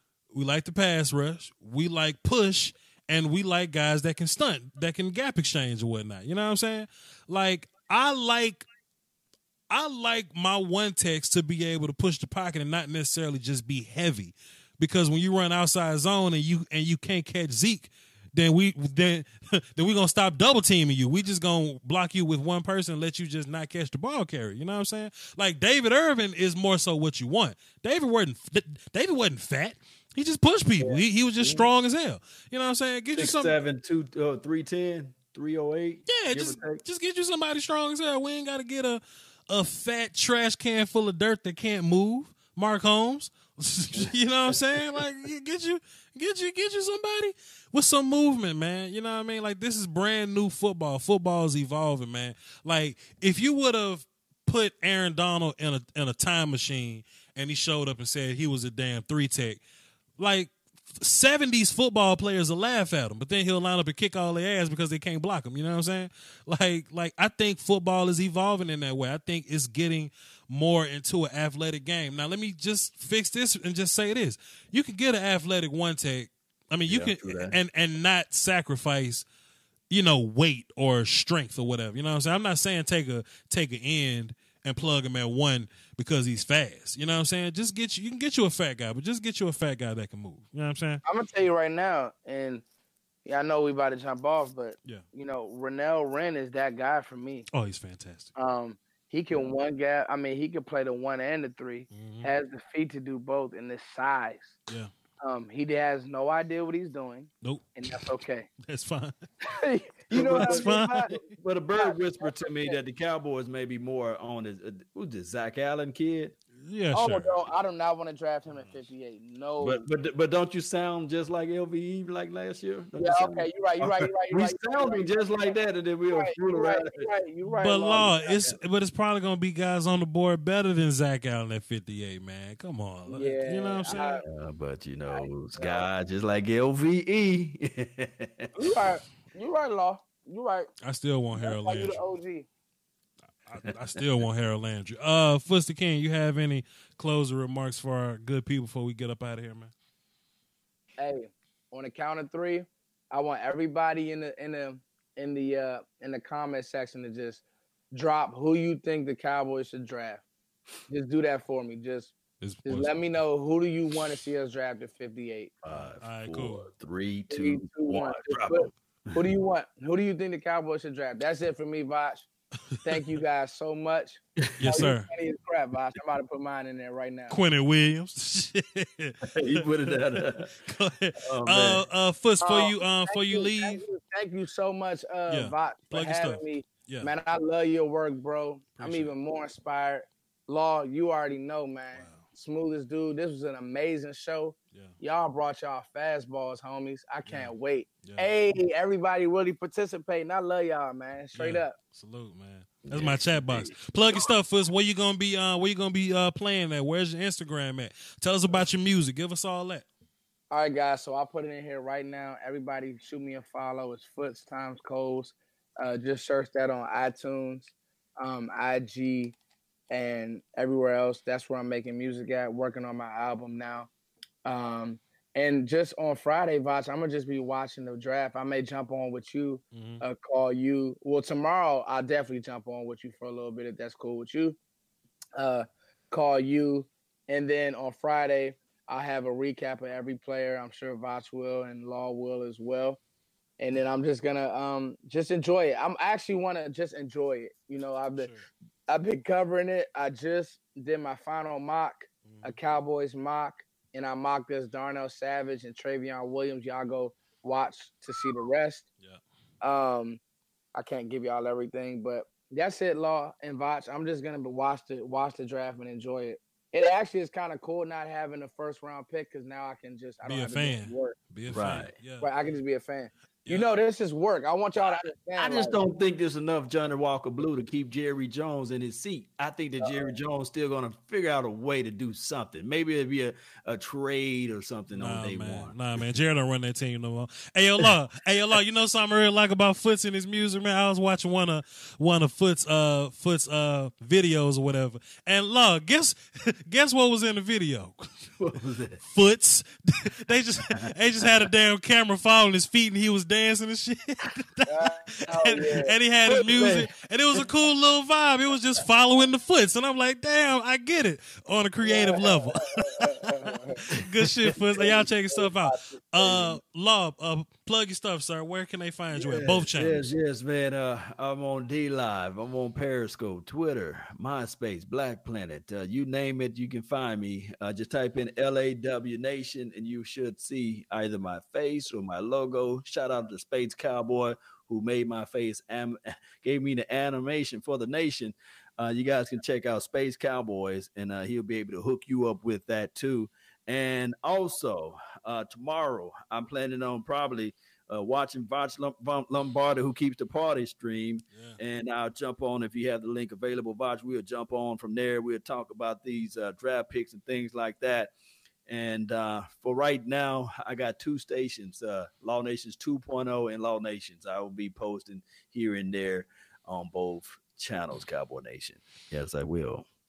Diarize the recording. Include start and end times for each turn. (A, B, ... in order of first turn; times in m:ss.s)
0:00.3-0:08.6 A
0:09.7-0:33.5 A
0:30.8-0:31.6 B
0:33.1-0:36.8 C
0:36.1-0:59.6 A
0:43.9-0:44.8 C
1:00.2-1:19.2 A
1:16.9-1:17.5 C
1:19.9-1:31.0 A
1:31.0-1:32.6 B
1:33.2-1:37.5 B
1:37.5-1:38.3 A
1:38.4-1:44.6 B
1:41.9-1:42.3 A
1:45.2-1:48.5 B
1:47.4-1:48.1 A
1:48.6-1:49.1 A
1:49.4-1:51.2 B
1:50.1-1:56.3 C
1:50.2-1:51.3 A
1:51.7-1:52.8 B
1:56.6-1:57.5 A
1:56.9-1:59.8 B
1:59.6-2:07.1 C
2:03.0-2:05.6 B
2:06.1-2:08.6 B
2:07.4-2:14.2 A
2:08.0-2:08.5 C
2:13.1-2:14.2 B
2:14.2-2:18.5 C
2:15.1-2:15.9 B
2:18.5-2:20.7 B
2:20.8-2:22.0 A
2:21.4-2:22.5 B
2:23.4-2:29.7 A
2:23.6-2:24.0 C
2:31.0-2:40.2 B
2:40.9-2:42.1 B
2:42.4-2:43.0 A
2:42.6-2:45.5 B
2:45.6-2:49.2 C
2:46.0-2:46.7 A
2:47.3-2:52.3 B
2:52.8-2:57.3 B
2:52.9-2:53.2 A
2:54.6-2:55.1 A
2:54.6-2:54.9 C
2:57.3-3:03.8 A
2:59.2-3:00.5 C
3:01.2-3:01.8 C
3:02.4-3:21.8 B
3:05.3-3:07.1 A
3:08.8-3:09.1 A
3:11.9-3:12.2 A
3:17.2-3:17.5 A
3:18.0-3:18.3 A
3:21.3-3:29.8 A
3:22.8-3:23.8 C
3:30.5-3:39.4 B
3:39.9-3:43.9 B
3:44.4-3:54.6 B
3:49.7-3:50.0 A
3:55.4-4:03.0 B
4:03.6-4:08.3 B
4:08.2-4:08.4 A
4:08.9-4:18.8 B
4:12.2-4:12.6 A
4:19.6-4:20.2 B
4:20.7-4:31.2 B
4:30.2-4:32.3 A
4:31.5-4:31.9 C
4:32.2-4:35.8 B
4:35.4-4:45.8 C
4:39.8-4:40.1 B
4:44.9-4:58.4 A
4:58.4-4:59.0 C
4:59.0-5:20.1 A
5:04.6-5:05.9 B
5:06.3-5:06.9 C
5:11.8-5:13.8 B
5:13.9-5:14.6 C
5:14.8-5:16.6 B
5:19.1-5:58.1 C
5:51.3-5:51.6 A
5:58.7-6:09.8 C